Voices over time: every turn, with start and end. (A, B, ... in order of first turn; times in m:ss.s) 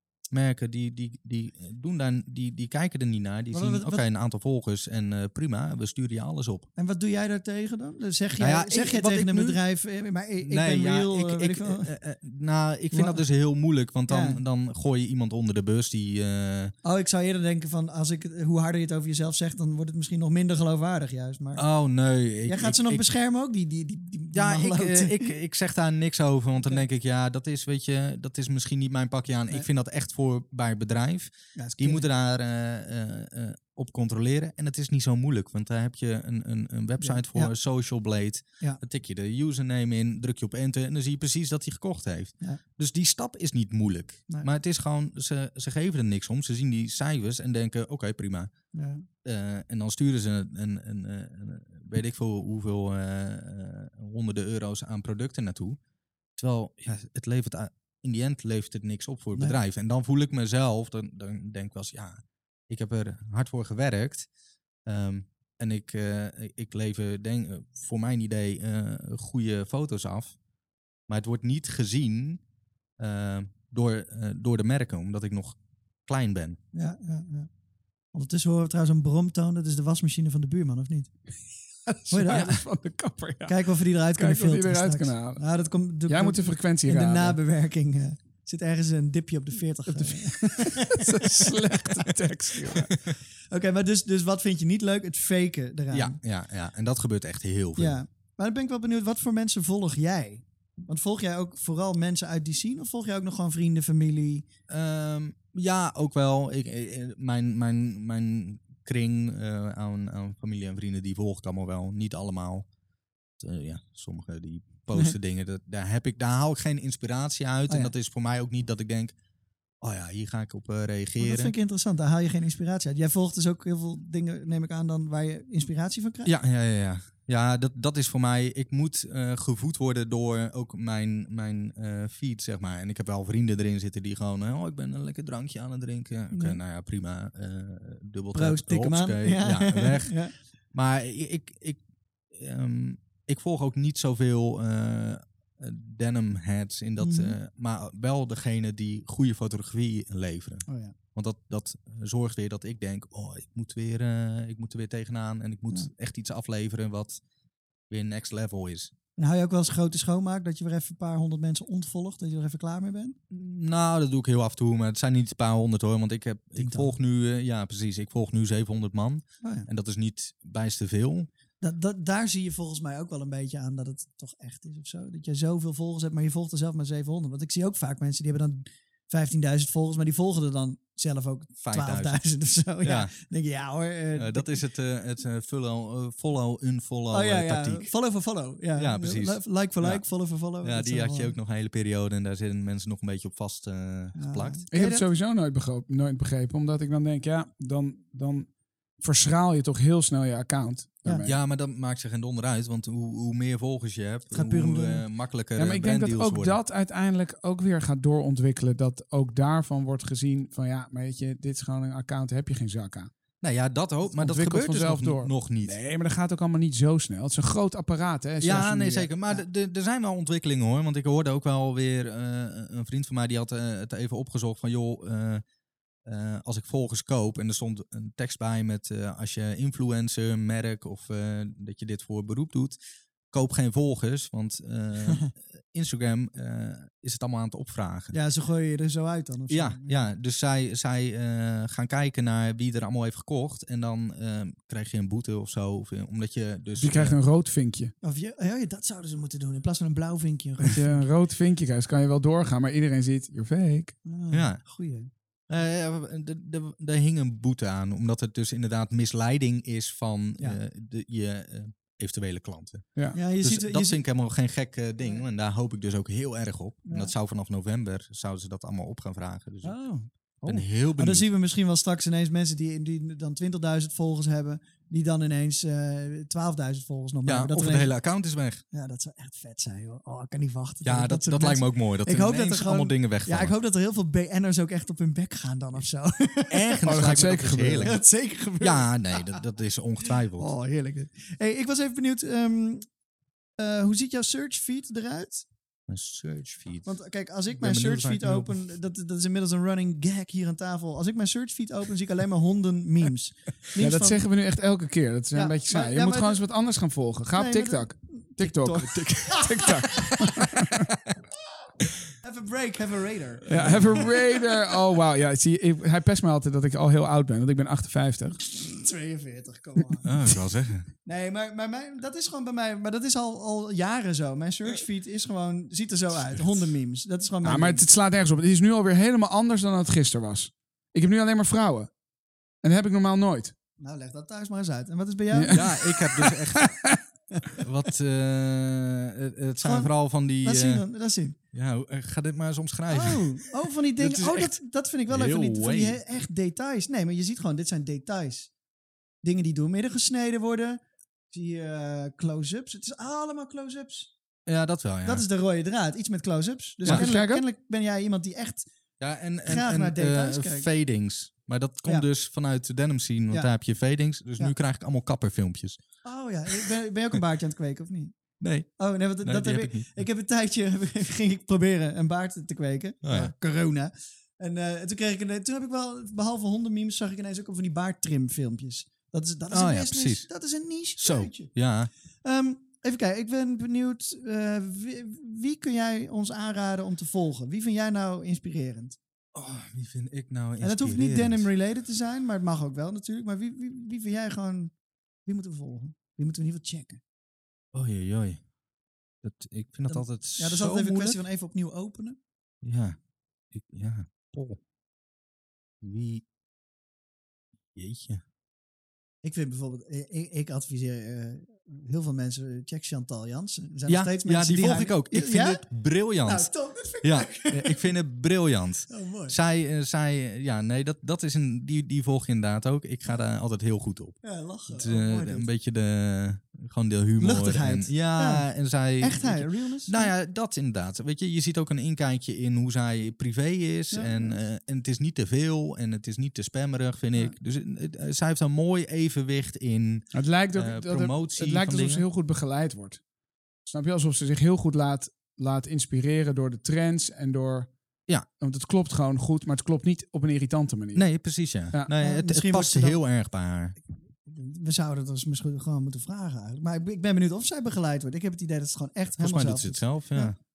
0:00.3-0:06.7 A
0:03.5-0:04.0 B
0:06.8-0:11.9 B
0:08.4-0:09.6 A
0:10.4-0:16.7 A
0:12.9-0:13.2 B
0:14.1-0:14.4 B
0:16.8-0:21.7 B
0:21.6-0:23.0 A
0:22.5-0:25.3 B
0:24.3-0:48.5 A
0:31.6-0:32.1 B
0:37.0-0:37.5 B
0:48.7-0:49.0 B
0:49.2-0:55.8 A
0:56.4-1:04.3 A
1:04.9-1:10.4 A
1:11.1-1:12.4 A
1:13.0-1:16.6 A
1:16.7-1:17.5 B
1:18.1-1:21.1 B
1:21.9-1:25.4 C
1:22.1-1:22.6 B
1:22.3-1:22.6 A
1:23.5-1:32.1 B
1:26.1-1:27.4 C
1:29.9-1:33.0 C
1:32.7-1:33.1 A
1:33.5-1:36.2 B
1:35.9-1:38.0 A
1:37.8-1:44.5 B
1:44.7-1:52.7 A
1:53.4-1:59.1 A
1:57.7-1:57.9 B
1:59.8-2:01.5 A
2:01.2-2:06.3 B
2:06.2-2:20.2 A
2:16.3-2:16.6 B
2:18.3-2:20.3 B
2:20.7-2:37.2 A
2:27.0-2:27.4 B
2:30.7-2:31.0 B
2:37.9-2:38.9 A
2:39.2-2:43.2 B
2:43.3-2:51.3 A
2:46.6-2:46.9 B
2:49.4-2:49.7 B
2:51.6-3:04.6 B
3:01.6-3:02.2 A
3:02.8-3:03.1 A
3:04.2-3:07.9 A
3:07.1-3:11.4 B
3:08.8-3:10.0 A
3:10.6-3:14.6 A
3:14.2-3:15.0 B
3:14.7-3:18.5 C
3:19.0-3:21.4 C
3:21.2-3:26.6 A
3:24.3-3:25.0 B
3:25.6-3:33.1 C
3:33.4-3:35.8 A
3:34.1-3:39.1 C
3:38.4-3:45.4 A
3:46.0-3:52.8 A
3:53.3-3:58.2 A
3:58.1-4:00.0 B
3:59.5-4:07.2 A
4:06.8-4:07.9 C
4:08.0-4:11.0 B
4:10.7-4:14.0 C
4:14.0-4:15.1 B
4:14.3-4:14.6 A
4:15.5-4:22.9 A
4:23.1-4:24.0 B
4:23.4-4:29.8 A
4:26.9-4:27.1 B
4:29.6-4:37.9 B
4:30.4-4:31.3 A
4:37.3-4:38.6 A
4:38.7-4:47.1 B
4:40.8-4:43.5 A
4:46.5-4:48.0 A
4:46.8-4:47.9 C
4:47.8-4:49.4 B
4:48.6-4:50.5 A
4:50.4-4:52.9 B
4:53.6-4:55.5 B
4:55.9-4:57.0 A
4:56.8-5:04.2 B
4:57.5-4:58.6 A
5:03.8-5:10.9 C
5:05.3-5:06.4 B
5:07.4-5:10.2 B
5:12.2-5:14.6 B
5:13.5-5:18.4 C
5:13.6-5:13.9 A
5:18.5-5:20.2 B
5:20.0-5:20.9 A
5:21.0-5:27.8 B
5:27.4-5:31.9 C
5:32.6-5:33.5 C
5:33.8-5:35.7 B
5:35.3-5:37.0 C
5:35.5-5:36.9 A
5:37.6-5:40.8 A
5:39.6-5:41.4 B
5:41.5-5:44.6 A
5:42.9-5:48.5 B
5:45.1-5:46.0 A
5:49.2-5:54.1 B
5:54.5-5:55.2 A
5:55.0-5:58.7 B
5:56.8-5:57.4 C
5:59.0-6:05.8 A
5:59.4-6:00.7 B
6:06.0-6:08.2 B
6:08.4-6:08.7 A
6:08.8-6:21.5 B
6:09.2-6:09.9 A
6:13.0-6:13.3 A
6:19.5-6:20.3 A
6:21.0-6:21.9 A
6:22.2-6:29.0 B
6:29.3-6:31.5 A
6:30.6-6:34.7 B
6:35.2-6:37.0 B
6:37.7-6:38.4 A
6:39.2-6:41.2 A
6:39.9-6:42.2 B
6:42.6-6:43.0 A
6:43.5-6:44.6 A
6:45.8-6:46.2 A
6:47.8-6:48.2 A
6:49.2-6:55.6 B
6:53.9-6:56.5 A
6:56.2-6:57.9 B
6:57.0-7:22.0 A
6:58.9-6:59.4 B
7:04.2-7:05.5 B
7:07.2-7:08.5 B
7:09.0-7:10.1 B
7:13.9-7:14.4 B
7:20.1-7:23.0 C
7:23.7-7:27.7 C
7:28.4-7:31.1 C
7:31.0-7:33.8 A
7:32.0-7:33.0 B
7:34.3-7:40.4 B
7:39.2-7:40.4 A